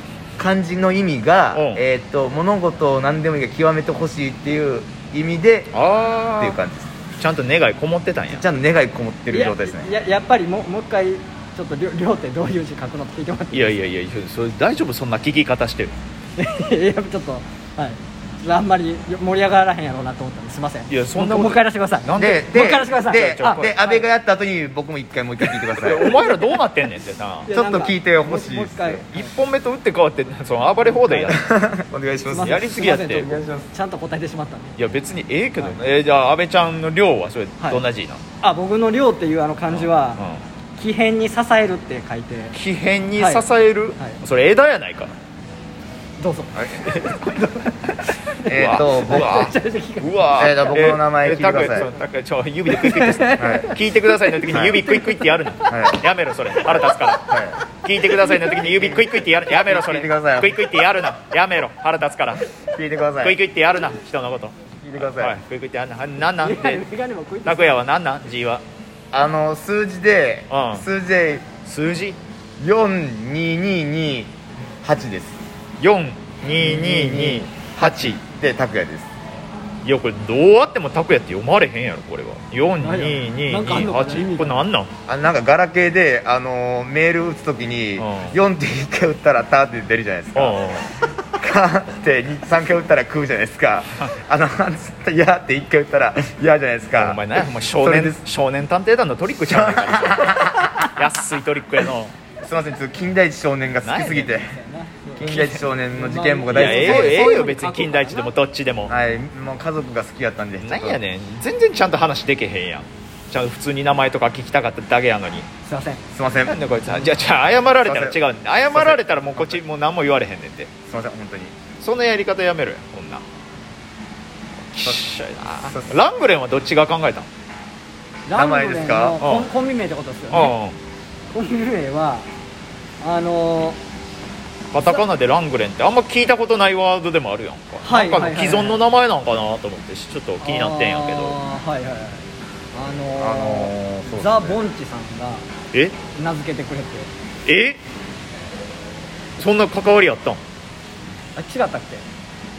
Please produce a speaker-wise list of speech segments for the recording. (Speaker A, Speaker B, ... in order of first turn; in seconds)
Speaker A: 0.4-5.8, 6.4-7.0, 8.3-9.9, 22.2-26.2, 27.5-29.1, 31.3-33.7, 48.5-49.5, 50.4-51.9, 53.4-53.7, 54.5-54.8, 55.7-56.0, 57.2-57.6, 58.6-60.6, 62.6-63.4, 64.8-65.4, 69.1-71.5, 72.6-75.4, 76.4-79.1, 85.1-90.6, 91.4-97.2, 97.8-98.2, 99.5-101.1, 102.4-104.6, 105.2-107.5, 108.9-111.0, 116.1-117.2, 117.8-119.6, 120.9-121.6, 125.6-126.0, 128.3-129.2, 143.2-144.6
Speaker B: 1.5-1.8, 5.7-6.6, 7.2-8.4, 13.5-15.9, 20.9-24.0, 25.7-27.5, 29.1-31.4, 32.4-33.3, 34.8-38.2, 39.7-40.4, 42.5-45.1, 46.7-62.4, 63.2-66.8, 67.5-68.6, 70.5-70.9, 71.7-72.2, 75.8-78.2, 79.8-84.9, 88.0-88.4, 90.3-90.9, 96.9-102.1, 103.8-104.3, 106.5-108.9, 110.6-115.5, 116.5-120.8, 121.8-123.2, 124.7-127.3, 129.2-129.5, 130.3-130.8, 134.7-141.4, 147.5-147.8, 149.4-150.4
Speaker C: 9.3-13.8, 16.4-24.0, 27.4-29.1, 30.9-31.4, 32.3-34.8, 38.4-40.2, 40.8-42.6, 43.2-44.2, 46.2-48.5, 49.0-50.6, 52.7-55.3, 56.8-57.1, 58.3-58.5, 66.4-67.8, 82.8-84.7, 104.4-108.3, 115.7-116.0, 128.3-130.5, 131.3-132.3, 133.0-133.8, 134.8-135.1, 137.8-138.8, 140.4-145.4, 146.1-147.1, 151.4-152.1